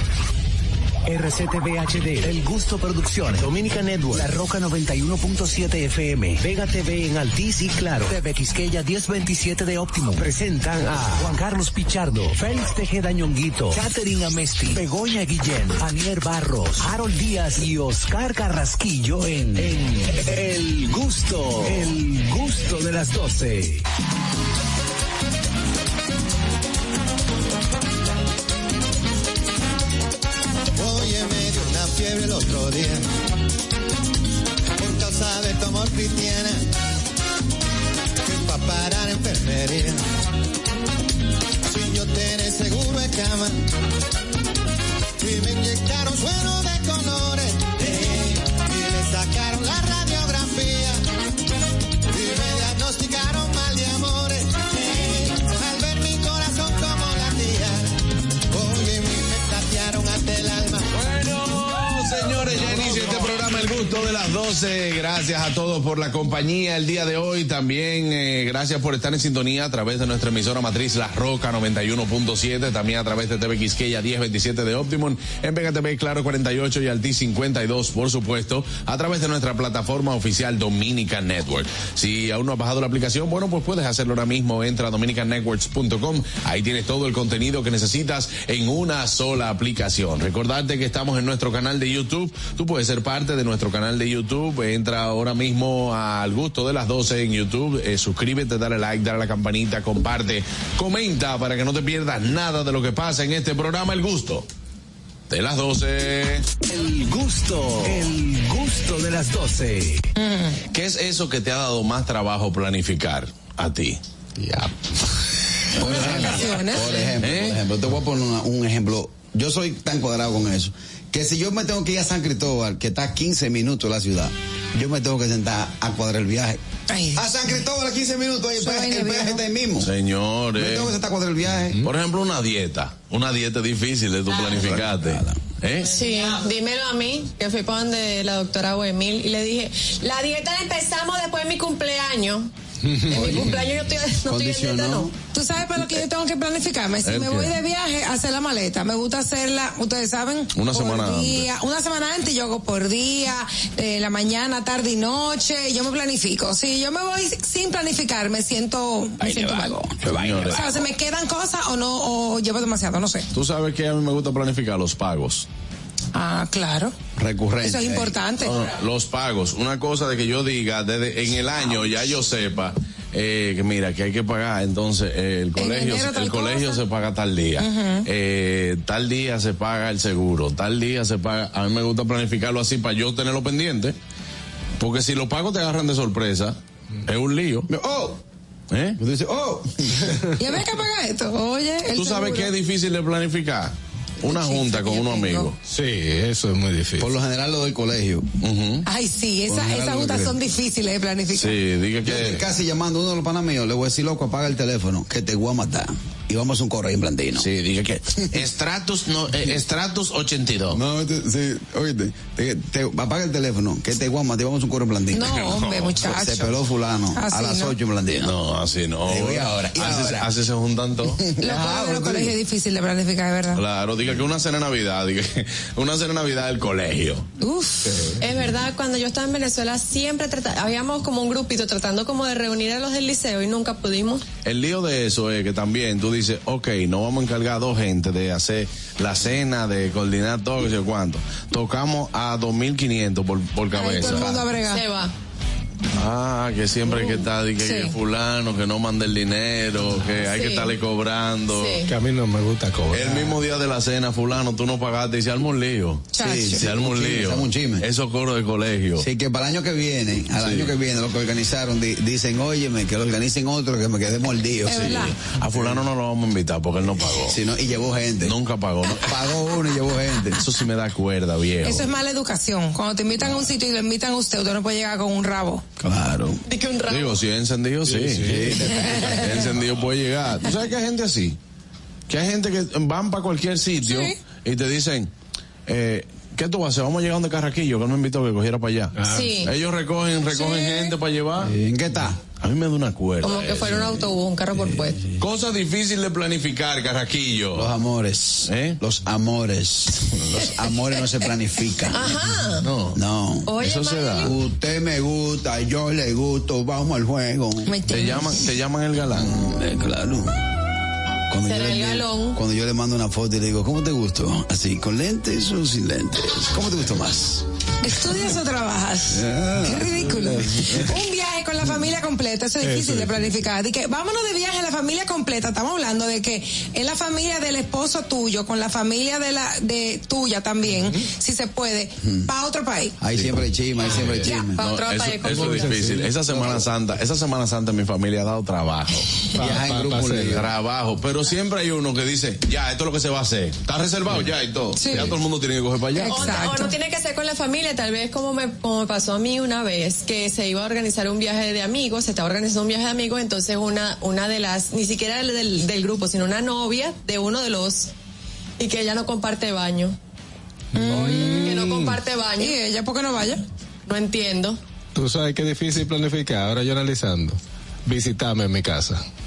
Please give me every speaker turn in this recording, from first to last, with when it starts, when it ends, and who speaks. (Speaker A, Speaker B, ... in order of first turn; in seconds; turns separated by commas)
Speaker A: 1.1-23.8, Speaker B: 30.8-33.1, Speaker B: 34.8-36.7, Speaker B: 38.2-40.0, Speaker B: 41.7-43.6, Speaker B: 45.2-51.0, Speaker B: 52.1-57.9, Speaker B: 58.5-60.8, Speaker C: 61.0-104.4, Speaker C: 105.3-106.5, Speaker A: 106.7-110.1, Speaker D: 110.2-110.6, Speaker C: 110.7-114.0, Speaker E: 114.4-114.7, Speaker F: 115.7-126.6, Speaker D: 115.9-117.1, Speaker C: 117.2-117.6, Speaker D: 126.9-127.2, Speaker F: 127.1-129.9, Speaker D: 128.6-129.4, Speaker C: 129.8-130.9, Speaker F: 130.6-131.8, Speaker C: 131.8-136.0, Speaker F: 134.5-135.4, Speaker G: 135.9-142.5, Speaker E: 142.8-143.4, Speaker G: 143.1-145.1, Speaker F: 143.1-143.6, Speaker F: 144.2-145.1, Speaker D: 145.3-159.8, Speaker C: 147.0-147.6, Speaker C: 150.5-151.5, Speaker F: 159.2-160.6, Speaker C: 160.0-160.7, Speaker D: 160.5-163.3, Speaker C: 163.3-165.5, Speaker D: 166.1-166.9, Speaker F: 167.2-168.2, Speaker D: 167.6-168.5, Speaker C: 168.4-183.9, Speaker D: 175.6-176.8, Speaker D: 177.6-178.1, Speaker C: 184.8-187.7, Speaker F: 187.7-188.2, Speaker C: 188.7-189.0, Speaker F: 189.0-190.1, Speaker D: 190.4-192.5, Speaker C: 191.9-195.6, Speaker D: 194.3-195.5, Speaker E: 195.7-197.1, Speaker F: 197.0-198.3, Speaker C: 198.4-198.8, Speaker D: 198.8-201.6, Speaker F: 199.5-200.4, Speaker C: 201.3-202.4, Speaker F: 202.0-207.5, Speaker C: 207.4-210.8, Speaker F: 210.7-218.4, Speaker D: 215.1-216.6, Speaker D: 217.2-217.7, Speaker C: 218.2-221.2, Speaker F: 219.0-220.3, Speaker F: 221.2-222.3, Speaker D: 221.4-223.6, Speaker C: 223.5-227.2, Speaker D: 227.4-227.9, Speaker E: 227.9-228.2, Speaker G: 228.2-234.2, Speaker C: 234.4-244.5, Speaker D: 243.7-244.8, Speaker G: 244.0-245.1, Speaker C: 246.0-251.8, Speaker D: 247.6-247.9, Speaker G: 250.2-250.7, Speaker G: 251.5-251.9, Speaker E: 251.8-253.4, Speaker C: 252.9-259.1, Speaker D: 256.1-256.6, Speaker F: 256.2-257.9, Speaker F: 259.0-265.8, Speaker C: 260.4-260.7, Speaker D: 264.6-265.1, Speaker C: 264.7-267.4, Speaker F: 267.3-268.4, Speaker C: 268.2-269.1, Speaker F: 268.9-270.4, Speaker C: 270.4-271.9, Speaker D: 271.6-275.6, Speaker F: 275.8-276.4, Speaker G: 276.4-277.2, Speaker C: 276.9-278.5, Speaker E: 278.0-278.8, Speaker F: 278.1-279.5, Speaker C: 279.0-281.4, Speaker C: 282.1-285.1, Speaker D: 283.8-284.1, Speaker C: 285.7-291.5, Speaker E: 289.0-289.3, Speaker G: 289.1-289.5, Speaker D: 290.3-290.9, Speaker F: 291.4-292.2, Speaker C: 292.4-294.1, Speaker G: 293.2-295.0, Speaker F: 294.6-295.1, Speaker C: 295.2-297.7, Speaker F: 297.5-302.1, Speaker C: 298.5-298.8, Speaker G: 301.9-302.7, Speaker C: 302.6-303.0, Speaker F: 302.9-303.5, Speaker G: 303.5-304.3, Speaker C: 303.6-304.3, Speaker F: 304.2-307.7, Speaker D: 307.6-308.2, Speaker C: 307.9-309.3, Speaker F: 309.2-310.4, Speaker F: 311.3-317.4, Speaker G: 311.4-312.4, Speaker D: 317.8-333.0, Speaker F: 319.1-320.0, Speaker E: 320.1-320.7, Speaker E: 322.6-323.3, Speaker E: 330.7-331.0, Speaker F: 332.0-332.3, Speaker F: 333.0-334.6, Speaker E: 333.9-334.3, Speaker G: 334.4-335.6, Speaker C: 334.6-346.5, Speaker F: 335.3-336.5, Speaker E: 335.3-336.6, Speaker E: 339.4-340.4, Speaker F: 339.4-340.4, Speaker D: 344.8-345.2, Speaker D: 346.0-346.7, Speaker G: 346.1-357.9, Speaker G: 358.6-359.9, Speaker D: 360.7-361.6, Speaker E: 360.7-362.0, Speaker G: 361.3-362.6, Speaker D: 362.4-363.4, Speaker G: 363.9-364.6, Speaker E: 364.9-369.0